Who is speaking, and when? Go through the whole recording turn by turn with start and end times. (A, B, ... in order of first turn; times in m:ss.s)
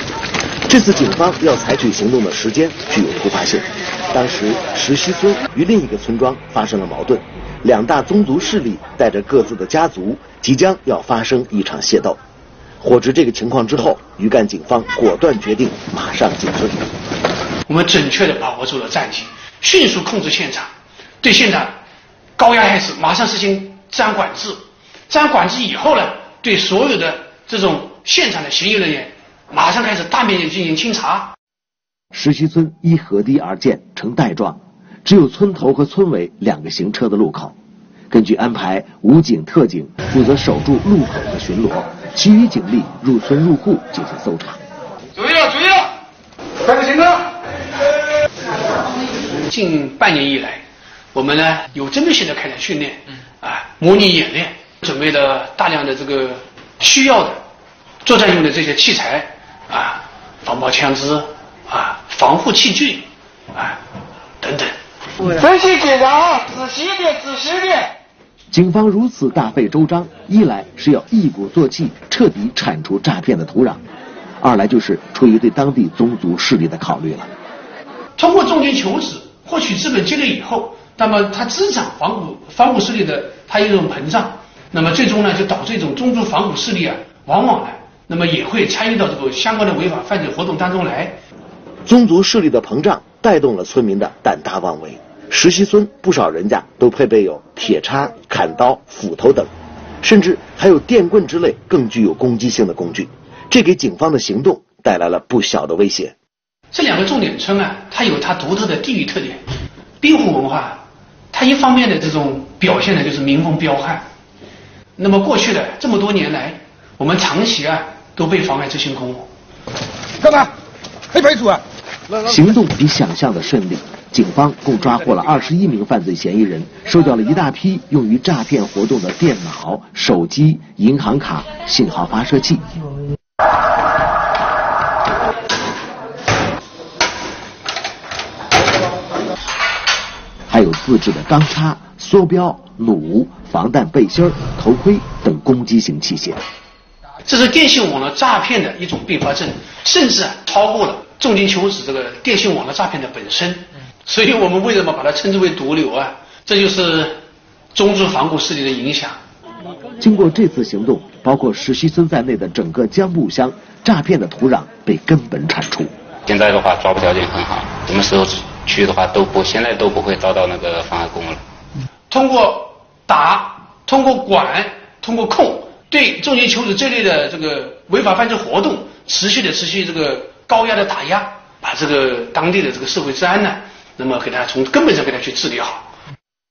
0:00.7-0:12.2 A
0:12.8-0:16.8 A
0:17.7-0:21.7 B
0:22.4-0:31.3 B
0:32.1-0:37.5 A
0:38.1-0:44.6 A
0:45.3-0:45.8 C
0:49.5-0:50.6 B
0:51.1-0:57.4 B
0:58.0-1:03.8 B
1:04.4-1:04.7 B
1:05.2-1:07.9 C
1:08.5-1:13.8 A
1:14.4-1:17.3 A
1:18.2-1:31.2 B
1:31.8-1:39.5 A
1:40.0-1:46.1 A
1:46.7-1:49.4 B
1:50.0-1:50.8 B
1:51.3-1:54.0 B
1:55.0-1:59.3 B
2:02.2-2:12.6 A
2:20.5-2:26.4 A
2:27.2-2:37.2 B
2:37.7-2:39.2 B
2:40.0-2:45.9 A
2:46.2-2:51.4 D
2:52.1-3:05.8 B